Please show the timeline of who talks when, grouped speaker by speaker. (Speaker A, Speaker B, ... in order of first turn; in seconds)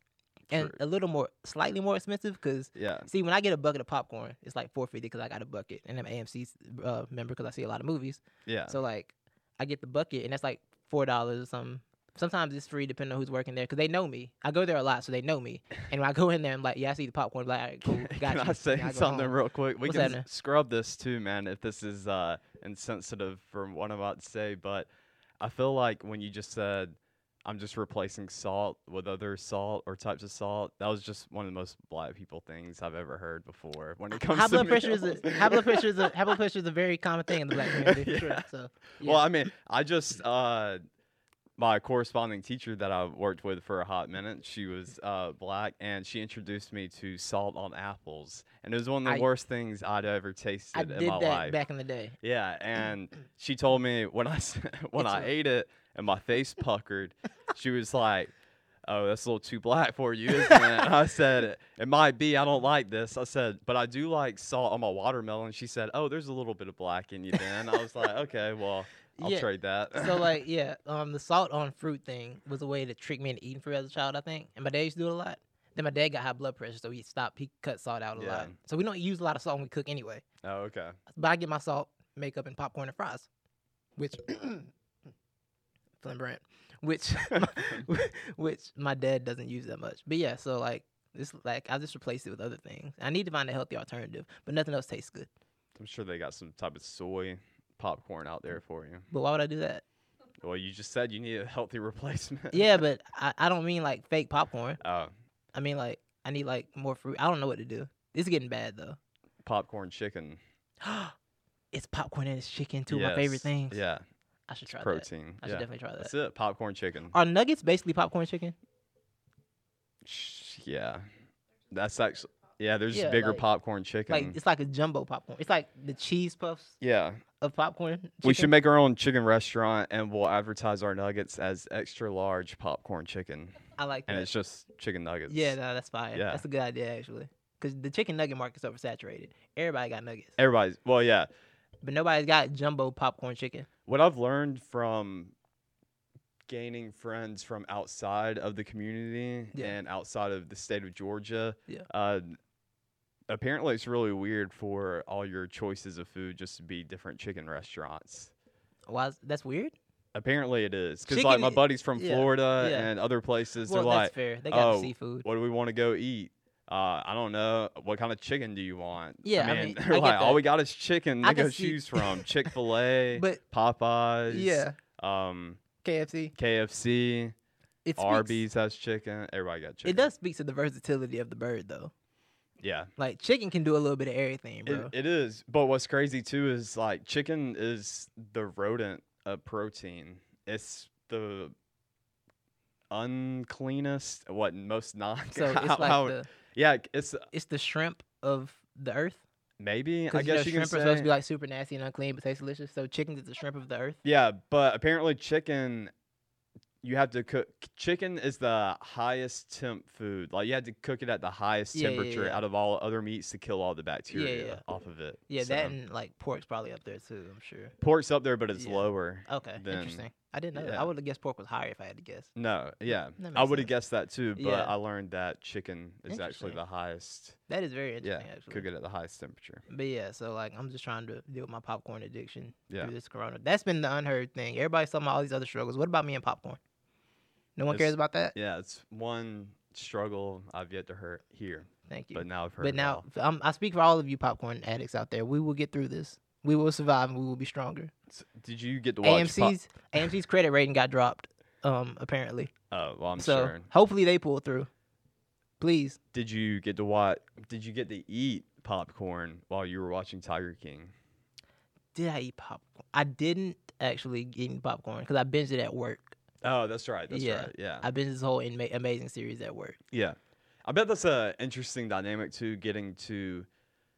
Speaker A: 0.5-0.8, 2.8-3.1, 8.4-8.8, 17.8-24.9, 25.4-36.1, 37.5-38.4, 39.0-40.8, 41.6-51.6, 52.2-58.3, 58.9-70.3, 78.2-78.5, 80.4-81.0, 87.3-87.9, 95.8-99.1, 100.4-102.7, 104.8-105.1, 109.4-110.4, 112.9-114.0, 114.7-117.1, 120.0-121.0, 121.7-124.3, 126.8-127.2, 128.2-135.5, 136.1-136.4, 140.4-141.3, 143.9-145.3, 146.5-152.4, 153.3-158.3, 160.1-175.6, 176.3-177.3, 178.0-180.1, 182.6-182.9, 184.7-191.5, 192.9-197.2, 199.6-201.1, 204.0-205.9, 206.8-215.7, 217.8-220.0, 220.5-220.9, 222.3-227.4, 228.0-229.6, 237.7-243.0, 248.1-249.6, 252.7-253.7, 256.1-260.9, 266.4-267.9, 269.9-273.5
Speaker B: 0.5-19.3, 19.9-20.2, 34.3-39.2, 50.7-52.1, 55.0-55.3, 69.2-80.2, 81.1-83.3, 84.0-84.7, 86.0-95.3, 99.1-99.8, 102.5-104.8, 105.5-109.0, 110.8-111.1, 111.7-113.8, 114.5-116.1, 117.1-118.5, 122.9-123.4, 124.1-126.8, 127.4-128.5, 133.8-134.3, 135.3-140.3, 141.8-143.7, 158.9-159.7, 161.1-162.9, 163.7-165.2, 169.2-170.4, 171.2-172.3, 173.1-173.4, 174.3-174.7, 175.8-176.3, 177.8-178.4, 179.8-181.9, 183.0-184.9, 195.3-196.3, 197.3-199.2, 200.1-204.0, 211.7-212.4, 214.1-214.6, 215.3-217.7, 218.6-222.3, 222.9-223.7, 224.3-224.7, 226.1-226.6, 227.5-228.7, 229.7-236.6, 237.6-238.3, 241.9-247.9, 249.0-252.5, 253.2-254.7, 255.6-256.0, 261.9-266.2, 267.1-269.8